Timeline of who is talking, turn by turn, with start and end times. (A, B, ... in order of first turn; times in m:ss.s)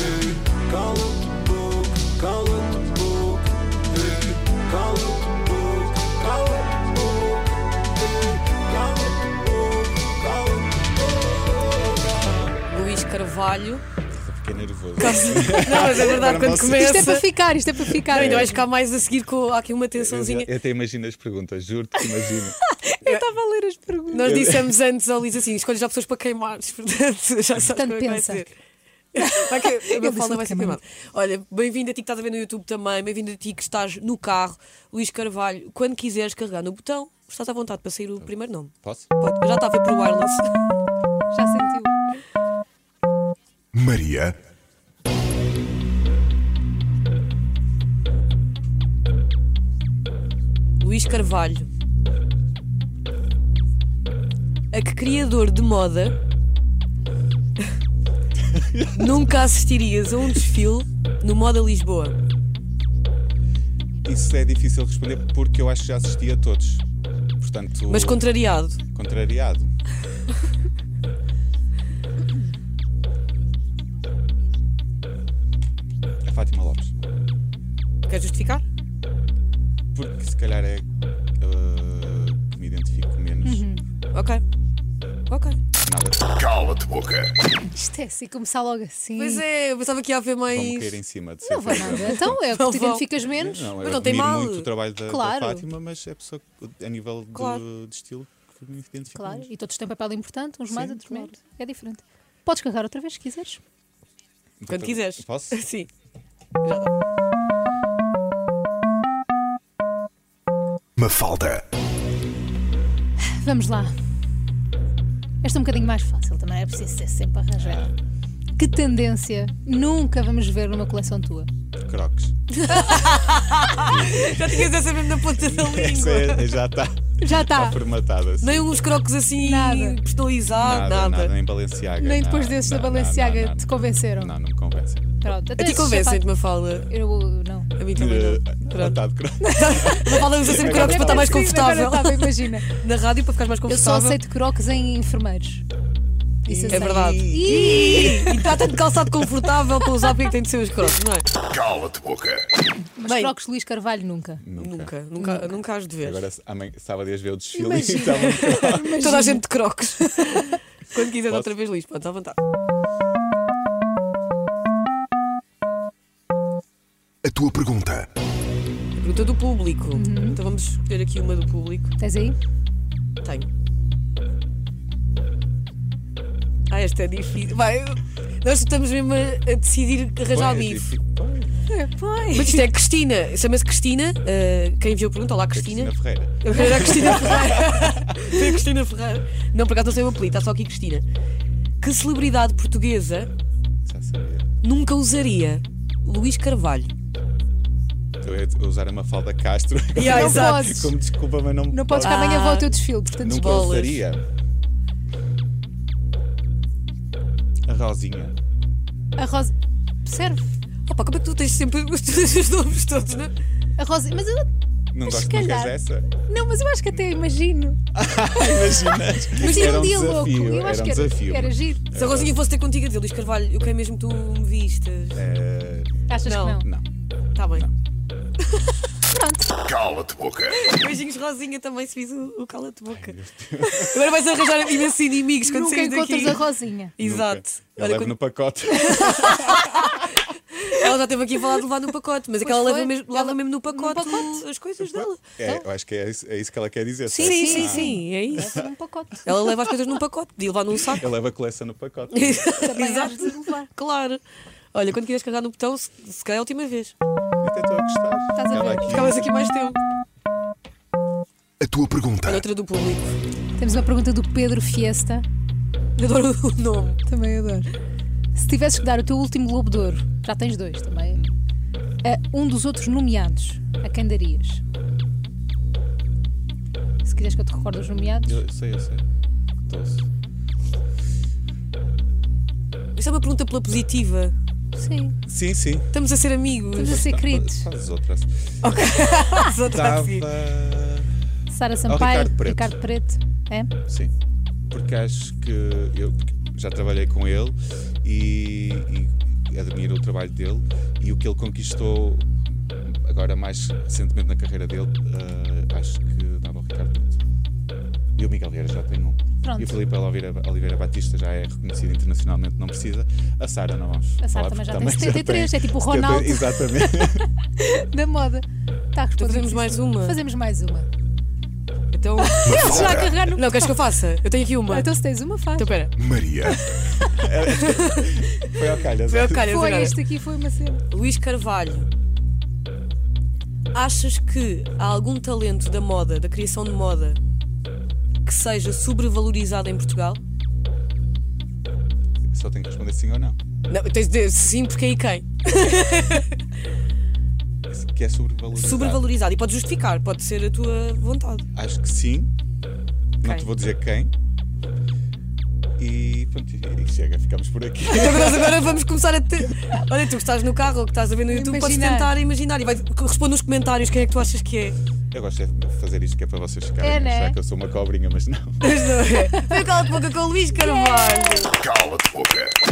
0:12.7-0:13.8 A
0:14.1-0:17.1 B
0:15.0-0:17.3 A
0:16.7-0:18.6 C
0:17.9-0:20.5 A
0:18.1-0:18.6 B
0:19.9-0:22.6 B
0:22.7-0:23.2 A
0:23.0-0:24.4 C
0:24.1-0:28.5 A
0:24.2-0:24.7 B
0:27.5-0:28.5 C
0:29.2-0:30.8 C
0:29.2-0:40.5 A
0:38.8-0:39.1 B
0:41.3-0:41.9 C
0:43.7-0:44.4 D
0:50.8-0:51.7 A
0:54.7-0:56.2 A
0:58.5-0:59.2 B
0:58.9-1:02.2 A
1:04.0-1:06.8 B
1:07.4-1:08.2 B
1:07.9-1:08.8 A
1:08.9-1:09.7 B
1:16.2-1:17.1 B
1:18.1-1:18.6 A
1:19.9-1:20.8 B
1:21.4-1:23.7 B
1:23.4-1:23.8 C
1:24.1-1:24.4 A
1:25.3-1:25.6 A
1:25.8-1:26.9 B
1:26.6-1:27.3 D
1:27.7-1:29.4 C
1:29.2-1:31.0 A
1:30.5-1:32.5 B
1:31.4-1:33.8 C
1:31.8-1:33.1 A
1:33.3-1:39.5 B
1:33.8-1:34.7 A
1:35.0-1:35.6 C
1:37.3-1:37.6 A
1:39.1-1:43.6 C
1:40.7-1:41.3 B
1:44.6-1:45.6 B
1:44.7-1:45.9 A
1:46.6-1:46.9 A
1:51.0-1:51.6 D
1:53.3-1:53.9 C
1:55.4-1:57.8 C
1:57.6-1:57.9 B
1:58.6-2:01.5 C
2:01.8-2:02.4 B
2:02.6-2:06.5 A
2:03.8-2:04.7 B
2:05.4-2:08.7 B
2:07.2-2:07.8 C
2:08.4-2:11.3 A
2:09.4-2:10.0 C
2:10.5-2:15.1 B
2:12.0-2:14.3 C
2:15.2-2:16.2 C
2:15.6-2:16.9 A
2:16.9-2:17.7 C
2:17.8-2:19.0 A
2:17.9-2:21.7 B
2:19.4-2:22.7 C
2:19.5-2:24.2 A
2:23.7-2:25.6 C
2:26.4-2:28.4 C
2:26.4-2:27.8 B
2:26.7-2:31.3 A
2:31.6-2:32.4 D
2:33.0-2:34.4 C
2:33.0-2:33.3 A
2:34.4-2:34.9 B
2:34.6-2:36.2 A
2:35.2-2:35.6 C
2:36.0-2:39.0 B
2:37.5-2:39.4 C
2:38.4-2:42.4 A
2:40.0-2:40.4 C
2:47.2-2:48.1 D
2:49.0-2:51.9 A
2:49.9-2:50.4 C
2:52.0-2:52.4 C
2:53.2-2:53.5 A
2:56.7-3:00.9 A
3:00.3-3:01.5 B
3:01.7-3:02.6 C
3:02.3-3:11.0 A
3:05.5-3:08.5 B
3:11.8-3:13.3 A
3:13.8-3:14.5 B
3:14.6-3:16.9 A
3:18.2-3:22.3 B
3:19.9-3:20.7 A
3:20.0-3:20.9 C
3:21.7-3:23.6 C
3:22.0-3:24.1 A
3:23.2-3:24.2 B
3:27.7-3:28.4 B
3:29.2-3:30.5 C
3:30.9-3:33.3 A
3:33.8-3:34.5 C
3:34.9-3:36.1 B
3:35.0-3:37.8 C
3:37.9-3:42.4 B
3:39.3-3:41.8 C
3:41.9-3:45.2 A
3:45.1-3:46.8 B
3:46.1-3:46.7 C
3:46.2-3:46.6 A
3:47.4-3:47.7 A
3:49.1-3:49.6 C
3:49.7-3:50.6 D
3:50.4-3:56.4 A
3:52.9-3:54.1 B
3:55.4-3:56.9 C
3:57.0-3:58.1 A
3:57.0-3:59.6 B
3:58.8-4:05.4 A
4:02.4-4:04.4 C
4:04.8-4:08.7 B
4:07.1-4:09.3 C
4:07.2-4:08.6 A
4:09.2-4:11.1 A
4:10.9-4:12.6 B
4:12.1-4:14.2 A
4:12.6-4:13.7 C
4:14.7-4:16.9 A
4:17.4-4:19.3 B
4:18.3-4:19.0 C
4:18.8-4:19.8 A
4:21.6-4:22.4 D
4:22.2-4:23.2 A
4:23.6-4:25.2 C
4:26.0-4:27.0 A
4:27.0-4:27.7 C
4:28.3-4:31.2 C
4:32.0-4:34.6 C
4:37.0-4:38.4 C
4:37.5-4:39.0 B
4:39.7-4:40.1 B
4:42.9-4:44.3 A
4:44.8-4:45.2 C
4:45.2-4:45.9 B
4:45.9-4:47.0 A
4:46.8-4:47.7 C
4:46.8-4:48.6 B
4:48.6-4:50.3 A
4:49.7-4:51.1 B
4:51.5-4:53.7 C
4:51.9-4:52.7 B
4:53.9-4:54.1 B
4:54.7-5:07.2 B
5:08.2-5:17.2 B
5:09.4-5:09.8 C
5:14.2-5:20.9 C
5:19.2-5:20.2 A
5:21.9-5:24.9 A
5:22.2-5:23.9 C
5:22.4-5:23.1 D
5:24.7-5:25.7 C
5:25.6-5:25.9 A
5:26.0-5:26.6 D
5:26.5-5:30.0 A
5:27.0-5:29.7 B
5:29.4-5:30.8 C
5:30.9-5:31.9 A
5:33.7-5:37.2 A
5:38.2-5:40.2 A
5:42.3-5:43.4 B
5:43.7-5:46.3 A
5:47.7-5:49.0 B
5:48.5-5:51.4 A
5:51.5-5:52.3 B
5:53.2-5:54.1 B
5:55.8-5:58.7 B
5:57.9-6:04.8 A
6:01.3-6:02.1 C
6:05.1-6:08.6 B
6:06.8-6:07.4 C
6:08.6-6:11.7 A
6:09.4-6:09.6 C
6:10.6-6:11.5 C
6:11.8-6:12.5 D